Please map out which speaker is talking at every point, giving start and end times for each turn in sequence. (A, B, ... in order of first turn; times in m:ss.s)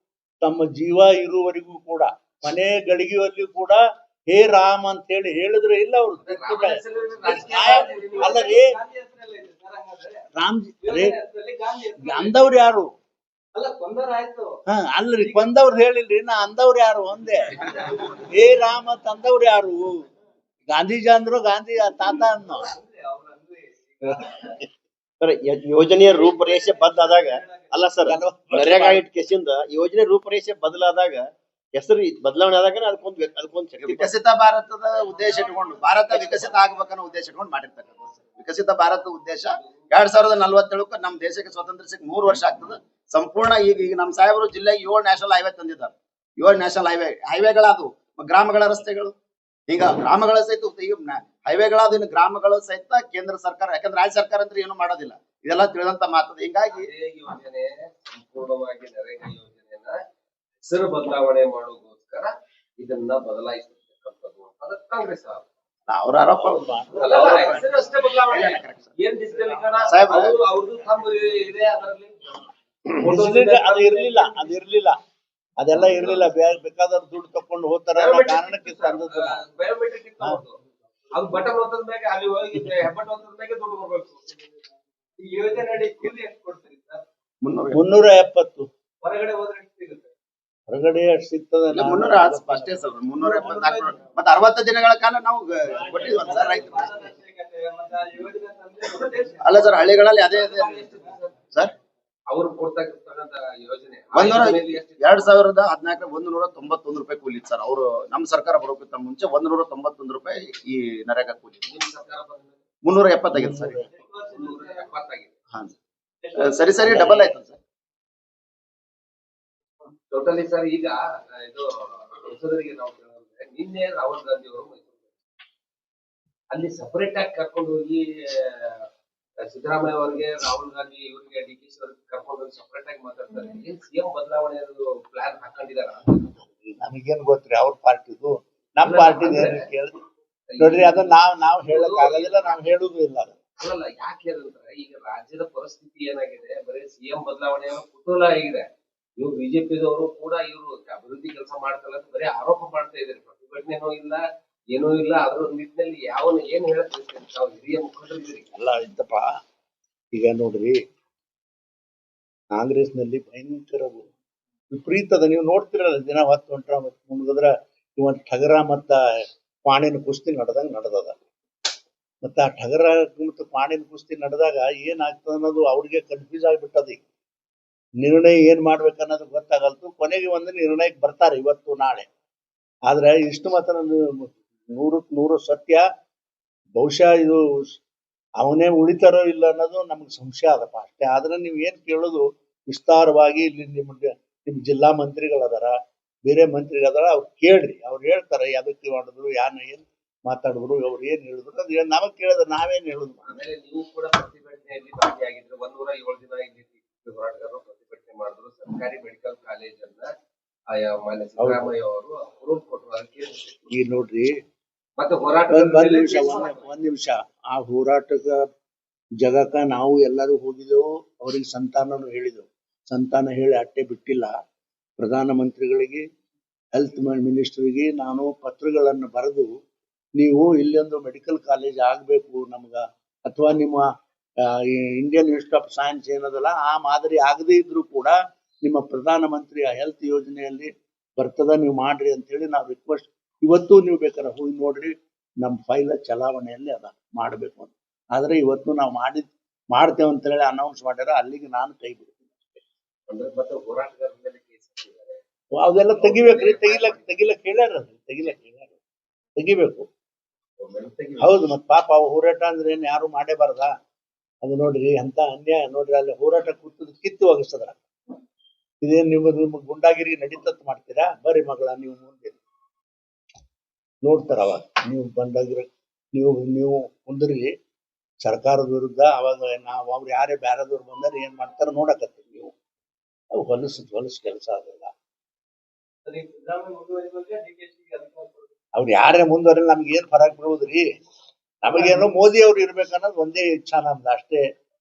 0:00.4-0:08.7 A
0:06.2-0:08.5 B
0:07.2-0:10.2 C
0:10.4-0:11.1 A
0:10.8-0:12.6 C
0:12.0-0:12.9 A
0:13.5-0:14.6 C
0:14.7-0:17.6 A
0:15.2-0:15.5 C
0:17.6-0:18.2 C
0:18.3-0:20.0 A
0:20.7-0:22.7 A
0:22.4-0:24.6 C
0:25.2-0:34.1 D
0:26.1-0:27.8 C
0:28.1-0:29.0 A
0:33.8-0:49.1 E
0:35.1-0:36.7 C
0:36.1-0:36.4 D
0:49.7-0:56.9 E
0:56.7-1:00.0 B
1:00.6-1:05.4 B
1:05.9-1:08.9 E
1:06.4-1:07.6 A
1:07.0-1:12.5 B
1:09.9-1:10.3 E
1:13.0-1:14.2 B
1:13.0-1:15.0 A
1:15.6-1:19.4 A
1:18.0-1:20.6 B
1:21.1-1:24.2 B
1:25.2-1:27.0 C
1:27.4-1:27.8 E
1:27.7-1:28.7 A
1:29.0-1:30.1 C
1:30.7-1:32.8 A
1:31.7-1:36.9 E
1:33.2-1:34.1 C
1:35.7-1:41.1 C
1:39.4-1:40.8 E
1:40.3-1:41.4 B
1:42.3-1:45.3 B
1:44.1-1:51.7 E
1:51.6-1:52.6 B
1:52.8-1:53.8 E
1:53.3-1:53.8 A
1:53.8-1:54.9 C
1:54.3-1:55.3 B
1:56.2-1:56.8 C
1:56.4-1:57.6 E
1:56.8-1:57.4 A
2:00.1-2:05.1 B
2:06.5-2:08.8 B
2:09.4-2:16.1 B
2:16.7-2:19.9 A
2:18.8-2:19.7 B
2:20.5-2:21.1 B
2:20.6-2:23.4 A
2:21.7-2:22.6 B
2:23.6-2:28.7 B
2:29.2-2:34.2 B
2:34.7-2:38.5 B
2:38.5-2:39.4 A
2:40.1-2:40.8 A
2:42.5-2:44.1 A
2:44.7-2:49.0 A
2:49.6-2:51.2 A
2:52.2-2:57.0 A
2:58.0-3:02.1 A
3:02.9-3:05.8 A
3:06.8-3:07.8 A
3:08.4-3:23.2 A
3:23.2-3:30.1 B
3:30.7-3:33.6 B
3:31.4-3:31.7 A
3:33.7-3:34.4 A
3:35.0-3:36.7 B
3:35.5-3:38.4 A
3:39.2-3:44.3 A
3:45.0-3:46.0 A
3:46.7-3:49.5 A
3:50.2-3:53.9 A
3:54.4-4:12.4 A
4:13.1-4:15.2 B
4:15.6-4:18.8 A
4:16.0-4:17.2 B
4:19.4-4:19.9 A
4:20.6-4:21.4 B
4:21.2-4:23.8 A
4:24.4-4:27.8 A
4:28.8-4:32.4 A
4:34.0-4:37.5 A
4:38.2-4:42.5 A
4:43.3-4:44.9 A
4:46.0-4:48.5 C
4:48.8-4:50.9 A
4:51.6-4:54.4 A
4:51.7-4:52.0 C